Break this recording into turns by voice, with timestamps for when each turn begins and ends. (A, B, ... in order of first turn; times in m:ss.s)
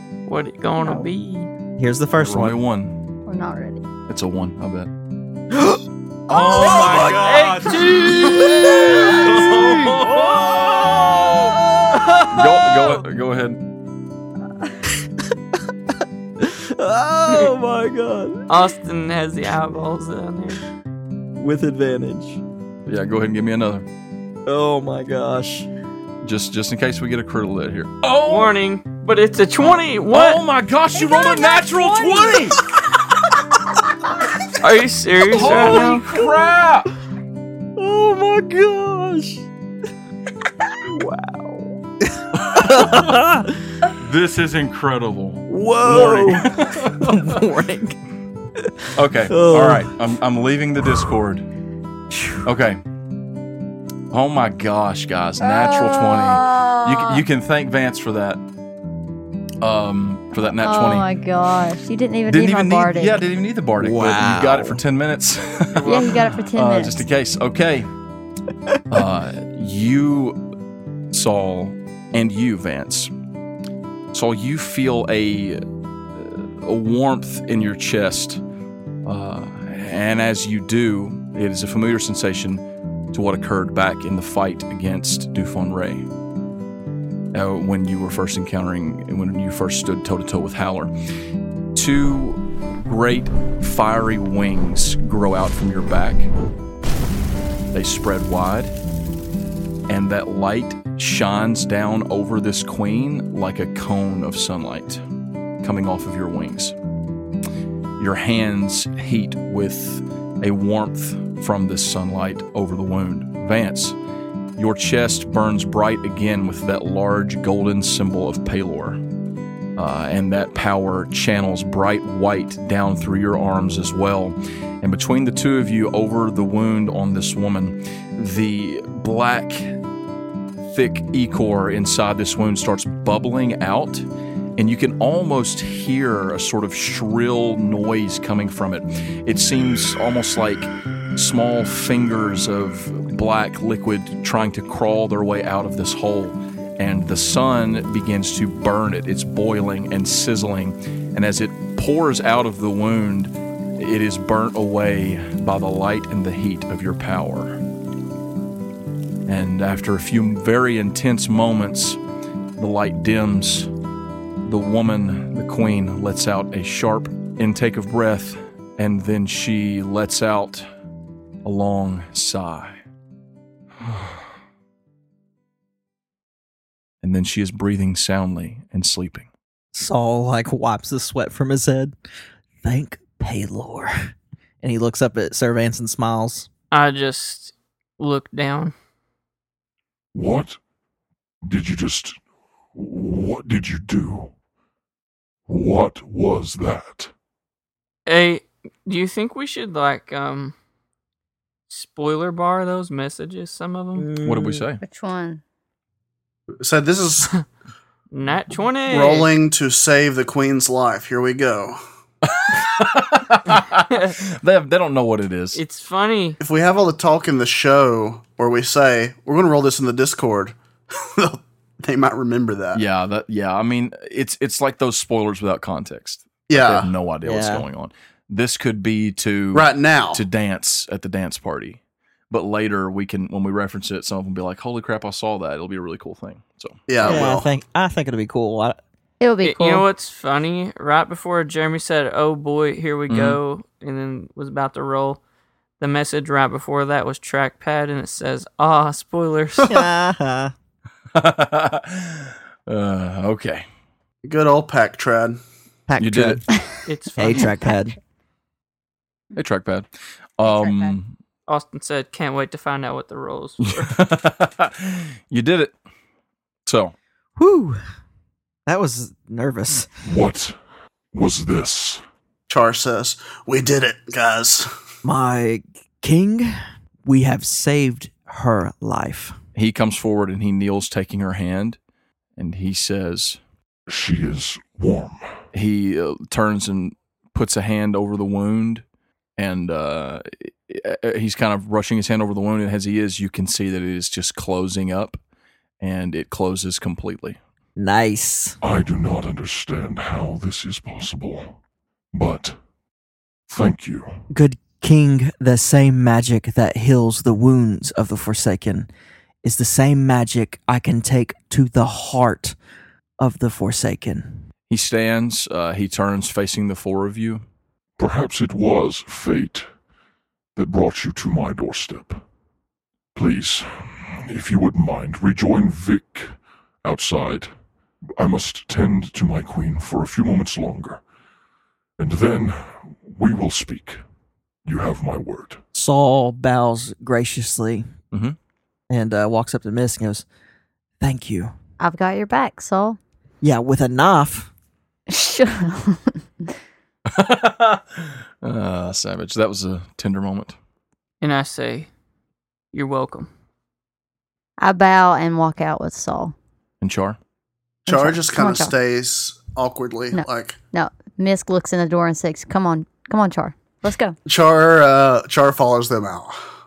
0:00.3-0:01.5 A
0:00.8-0:01.1 B
0:01.8-0:02.6 C
0:02.2-0:03.0 D
0:03.3-0:03.9 B
0:04.1-0:04.9 D
0:05.5-0:12.9 C
0:06.3-0:13.6 D
0:06.8-0:08.9 A
0:16.4-0:18.5 C
0:18.5-0:20.6 A
0:21.4-0:22.4 C
0:22.9-0:23.9 D
0:24.5-0:25.7 C
0:26.2-0:28.5 D
0:28.2-0:30.4 A
0:30.1-0:32.6 D
0:34.6-0:36.0 A
0:35.3-0:36.9 D
0:35.4-0:36.1 C
0:37.8-0:39.5 C
0:40.8-0:43.5 C
0:42.3-0:43.3 D
0:43.9-0:47.4 D
0:45.5-0:48.0 C
0:48.6-0:50.0 C
0:49.0-0:51.5 D
0:52.1-0:52.4 C
0:52.4-0:52.8 D
0:54.1-0:58.4 D
0:59.6-1:01.1 D
1:00.6-1:03.2 B
1:02.3-1:07.9 D
1:03.8-1:04.8 C
1:05.8-1:07.1 B
1:08.9-1:10.4 D
1:11.1-1:13.1 D
1:14.1-1:15.6 D
1:16.1-1:18.4 D
1:19.0-1:26.1 D
1:27.3-1:30.9 D
1:31.8-1:36.3 D
1:37.7-1:38.7 D
1:39.9-1:45.0 D
1:45.6-1:46.8 D
1:48.0-1:54.0 D
1:54.6-1:59.0 D
1:59.8-2:09.8 D
2:10.6-2:14.1 D
2:14.6-2:37.6 D
2:39.3-2:42.0 D
2:42.6-2:43.7 D
2:44.4-2:50.7 D
2:51.4-2:52.8 D
2:57.0-2:59.3 D
2:59.7-3:01.9 C
3:02.6-3:06.5 C
3:06.7-3:08.7 A
3:10.1-3:10.6 E
3:11.4-3:12.2 E
3:12.8-3:14.3 E
3:15.5-3:17.1 E
3:18.1-3:20.5 A
3:21.7-3:24.1 A
3:24.0-3:24.7 C
3:24.2-3:24.8 D
3:24.8-3:25.4 B
3:26.6-3:27.4 F
3:28.1-3:29.3 A
3:28.9-3:31.8 F
3:32.2-3:35.6 D
3:35.6-3:36.4 A
3:36.4-3:42.8 F
3:42.7-3:57.3 D
3:46.5-3:46.9 F
3:47.2-3:47.7 C
3:49.5-3:50.2 F
3:56.9-3:57.5 F
3:57.0-3:58.8 C
3:59.2-3:59.9 B
3:59.4-4:05.2 A
4:03.1-4:03.4 D
4:05.8-4:09.8 A
4:09.7-4:10.5 C
4:11.1-4:13.7 D
4:14.2-4:15.4 F
4:15.9-4:16.6 C
4:16.0-4:16.4 D
4:16.9-4:17.6 A
4:17.2-4:18.0 C
4:19.3-4:21.2 D
4:20.4-4:21.0 B
4:21.5-4:24.0 A
4:23.6-4:25.8 D
4:26.7-4:27.0 D
4:27.4-4:27.8 C
4:28.7-4:29.9 C
4:30.0-4:30.6 E
4:31.1-4:32.0 E
4:32.5-4:34.7 F
4:35.0-4:39.4 C
4:39.6-4:41.8 D
4:42.4-4:43.4 D
4:43.9-4:45.3 E
4:45.5-4:48.8 D
4:49.4-4:55.2 D
4:55.8-4:57.4 D
4:57.8-4:58.6 C
4:58.6-5:01.6 E
5:02.1-5:02.6 E
5:03.5-5:04.2 E
5:04.3-5:08.9 C
5:09.4-5:12.6 C
5:13.2-5:14.4 C
5:14.7-5:17.4 D
5:18.0-5:19.7 E
5:20.6-5:22.2 E
5:23.2-5:27.5 E
5:28.2-5:31.0 E
5:32.0-5:34.0 E
5:34.6-5:35.6 E
5:35.7-5:37.9 C
5:38.1-5:38.4 D
5:38.9-5:40.3 C
5:41.0-5:41.6 C
5:41.8-5:43.0 B
5:43.4-5:44.5 C
5:45.1-5:46.5 B
5:47.1-5:50.6 D
5:51.2-5:51.9 A
5:52.7-5:53.3 A
5:54.6-5:56.3 B
5:56.8-5:57.2 D
5:57.9-6:00.6 F
5:57.9-5:58.7 B
6:00.1-6:04.2 B
6:04.3-6:06.4 F